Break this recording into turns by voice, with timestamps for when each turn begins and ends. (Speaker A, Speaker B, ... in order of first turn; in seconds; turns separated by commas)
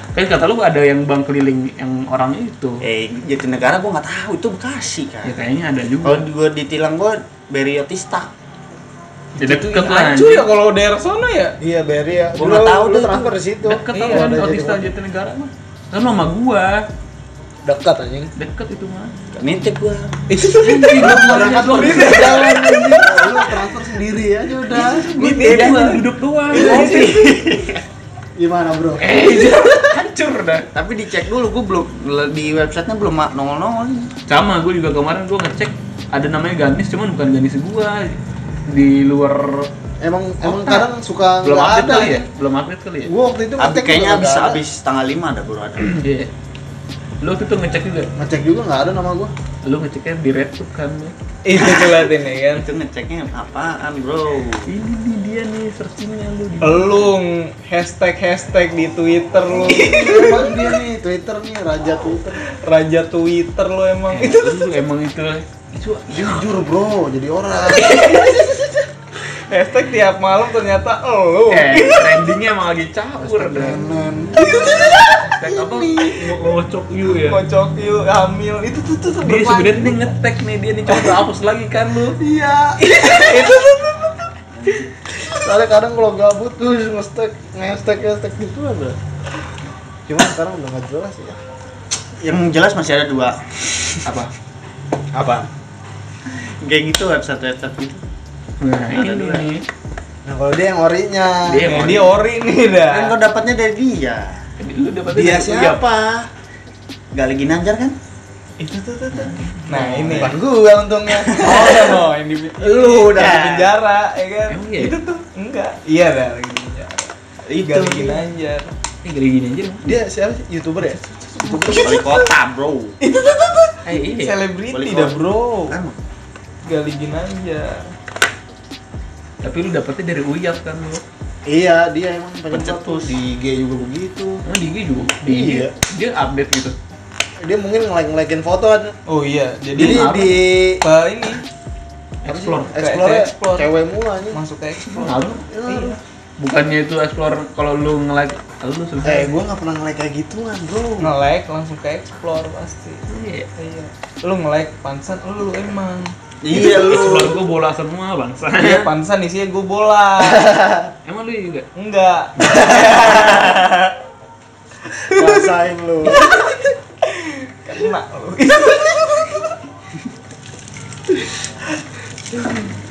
Speaker A: 0.1-2.8, Speaker B: 2.8-5.4, Speaker A: 5.2-6.3, Speaker B: 6.0-8.3, Speaker C: 9.4-11.6, Speaker A: 9.4-10.5, Speaker D: 11.6-14.9, Speaker B: 12.4-13.3, Speaker A: 13.6-16.9, Speaker C: 13.9-14.4, Speaker D: 17.6-18.3, Speaker A: 18.4-19.1, Speaker B: 19.4-20.1, Speaker C: 20.3-23.2, Speaker A: 20.6-23.1, Speaker D: 21.0-25.1, Speaker B: 21.1-22.3, Speaker A: 24.7-27.2, Speaker C: 25.2-27.7, Speaker B: 25.2-25.9, Speaker D: 26.5-27.2, Speaker B: 26.5-27.6, Speaker D: 28.4-29.2, Speaker A: 29.0-30.7, Speaker B: 30.7-34.1, Speaker A: 34.3-38.2, Speaker A: 38.7-39.7, Speaker D: 40.0-42.2, Speaker A: 40.4-40.9, Speaker A: 41.4-43.1, Speaker D: 43.0-44.6, Speaker B: 43.6-46.0, Speaker A: 45.8-46.3, Speaker A: 47.2-48.1, Speaker D: 48.2-49.3, Speaker A: 49.6-51.1, Speaker C: 51.4-52.7, Speaker B: 51.5-54.7, Speaker A: 54.7-57.1, Speaker C: 56.6-60.6, Speaker D: 59.5-62.4, Speaker C: 62.4-64.7, Speaker A: 64.1-66.5, Speaker D: 66.1-68.3, Speaker C: 67.7-68.7, Speaker C: 69.5-72.3, Speaker A: 71.5-73.8, Speaker D: 73.2-76.2, Speaker C: 74.3-75.4, Speaker A: 75.2-77.4, Speaker C: 75.9-76.2, Speaker C: 77.1-80.1, Speaker A: 79.2-82.2, Speaker D: 82.2-82.8, Speaker C: 82.8-84.8, Speaker B: 84.5-84.9, Speaker D: 85.3-89.0, Speaker D: 90.1-91.4, Speaker B: 92.2-94.0, Speaker A: 94.0-94.3, Speaker D: 95.1-95.5, Speaker B: 96.3-98.0, Speaker A: 98.6-99.6, Speaker B: 98.9-99.5, Speaker D: 100.2-101.9, Speaker A: 101.5-102.2, Speaker C: 101.6-103.1, Speaker B: 102.9-104.4, Speaker A: 104.6-105.8, Speaker D: 105.1-106.3, Speaker B: 107.1-108.0, Speaker C: 108.6-110.4, Speaker A: 109.7-110.3, Speaker D: 110.2-111.8, Speaker B: 111.2-112.0, Speaker C: 111.3-118.7, Speaker B: 112.6-113.7, Speaker A: 114.5-115.0, Speaker B: 117.5-118.2, Speaker A: 119.0-120.0, Speaker D: 119.8-122.0, Speaker C: 120.9-122.3, Speaker B: 121.8-123.0, Speaker C: 123.0-125.8, Speaker A: 123.9-124.4, Speaker B: 124.7-126.0, Speaker C: 126.7-127.9, Speaker A: 129.4-131.0, Speaker D: 131.4-134.4, Speaker B: 132.5-133.1, Speaker A: 134.4-136.7, Speaker D: 135.2-135.7, Speaker D: 137.4-138.9, Speaker C: 139.1-140.1, Speaker D: 139.8-140.8, Speaker A: 139.8-140.5, Speaker C: 140.8-141.4, Speaker A: 142.2-142.7, Speaker D: 142.2-144.4, Speaker C: 142.7-143.7, Speaker C: 144.3-146.0, Speaker A: 144.9-145.5, Speaker D: 145.5-146.0, Speaker A: 146.4-149.4, Speaker D: 149.0-151.1, Speaker C: 151.0-153.1, Speaker A: 153.1-153.5, Speaker C: 153.6-156.1, Speaker B: 156.4-157.4, Speaker A: 156.5-158.9, Speaker C: 158.6-160.6, Speaker D: 160.5-160.8, Speaker A: 161.1-161.7, Speaker C: 161.7-163.6, Speaker B: 163.1-163.5, Speaker C: 164.9-165.5, Speaker D: 165.1-166.3, Speaker C: 166.0-169.5, Speaker C: 172.3-172.6